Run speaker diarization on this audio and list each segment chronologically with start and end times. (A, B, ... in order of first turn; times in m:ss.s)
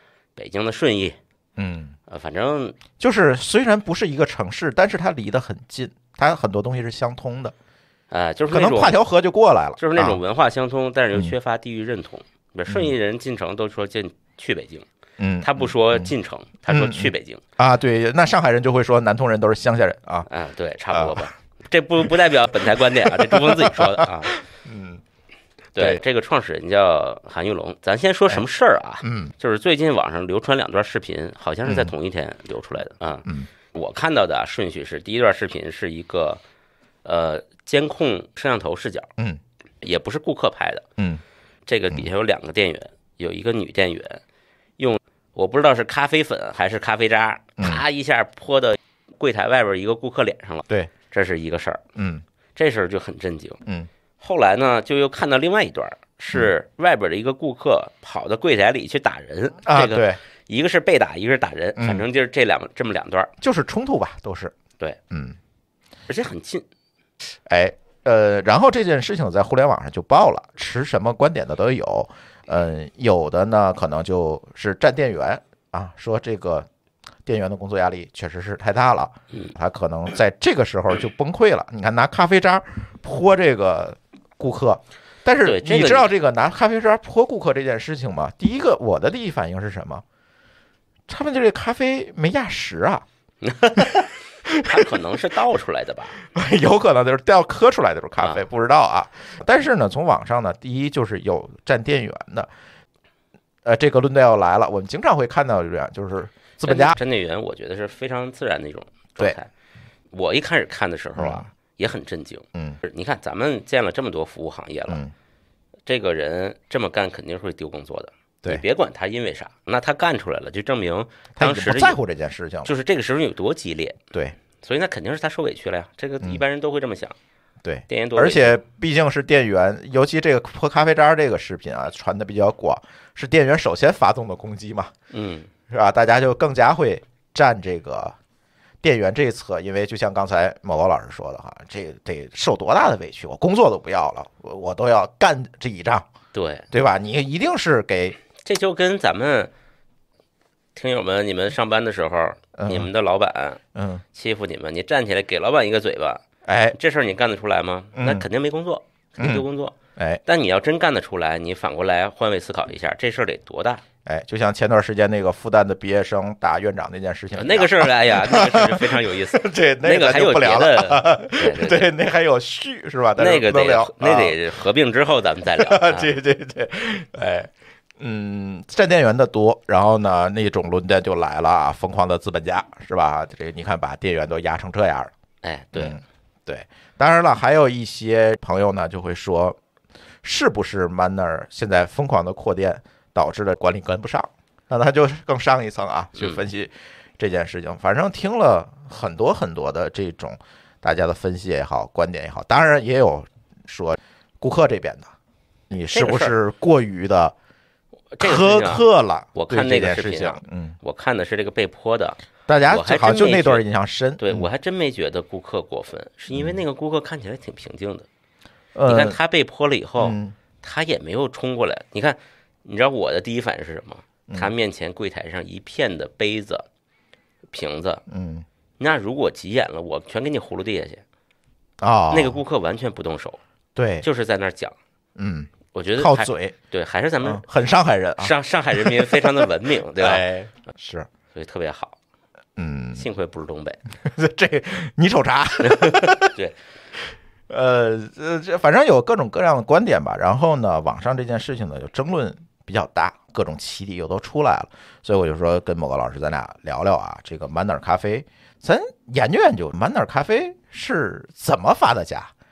0:00.4-0:01.2 A
0:01.6-0:02.0 B
0:02.1-0:02.8 A
0:03.0-0:07.5 B
0:08.1-0:09.0 A
0:08.5-0:10.2 B
0:09.8-0:14.9 A
0:12.7-0:13.0 B
0:15.2-0:16.1 B
0:15.4-0:17.4 A
0:16.7-0:20.3 B
0:20.3-0:24.4 A
0:20.9-0:21.3 B
0:22.7-0:25.0 B
0:25.8-0:36.4 A
0:29.0-0:29.3 B
0:31.7-0:31.9 B
0:37.0-0:39.1 A
0:39.8-0:40.9 A
0:41.7-0:44.2 A
0:44.8-0:51.8 A
0:52.0-0:52.2 B
0:52.6-0:53.6 A
0:54.2-1:03.3 A
0:59.6-1:00.2 B
1:01.8-1:02.0 B
1:03.4-1:04.5 B
1:05.1-1:05.4 B
1:06.1-1:06.7 A
1:07.5-1:16.7 B
1:17.2-1:30.0 B
1:25.4-1:26.1 A
1:31.1-1:33.0 B
1:33.4-1:34.0 A
1:33.8-1:34.9 B
1:34.6-1:36.2 A
1:36.3-1:42.5 B
1:38.2-1:38.4 A
1:43.6-1:47.0 B
1:46.6-1:49.5 A
1:50.1-1:55.0 A
1:51.2-1:51.5 B
1:55.9-2:02.0 A
2:01.4-2:02.7 B
2:02.6-2:04.0 A
2:04.6-2:07.2 A
2:07.6-2:14.9 B
2:07.9-2:08.6 A
2:15.1-2:15.5 A
2:15.7-2:18.2 B
2:18.8-2:26.1 B
2:26.3-2:26.7 A
2:26.7-2:28.2 B
2:28.4-2:29.5 A
2:30.8-2:33.6 A
2:32.6-2:32.9 B
2:33.8-2:34.0 B
2:34.1-2:43.8 A
2:36.4-2:36.8 B
2:38.0-2:38.2 B
2:39.2-2:39.4 B
2:40.0-2:40.2 B
2:44.0-2:54.4 B
2:47.4-2:51.9 A
2:53.2-2:56.1 A
2:55.5-3:05.1 B
3:05.4-3:06.0 A
3:05.8-3:09.6 B
3:10.2-3:25.1 B
3:16.2-3:16.4 A
3:25.7-3:27.4 B
3:25.9-3:26.4 A
3:28.1-3:33.6 A
3:28.2-3:30.8 B
3:32.5-3:34.5 B
3:34.2-3:38.1 A
3:36.3-3:36.6 B
3:38.8-3:39.2 B
3:38.9-3:46.6 A
3:40.0-3:40.4 B
3:47.5-3:48.0 A
3:48.1-3:48.4 B
3:48.8-3:51.0 A
3:51.8-3:52.4 B
3:52.1-3:53.4 A
3:53.8-3:54.0 B
3:54.0-3:54.8 A
3:55.2-3:56.6 B
3:55.7-3:57.4 A
3:57.2-4:01.1 B
3:58.2-4:00.3 A
4:01.3-4:02.0 A
4:02.6-4:03.0 B
4:03.0-4:03.8 A
4:04.0-4:06.4 B
4:05.6-4:06.6 A
4:07.1-4:22.3 B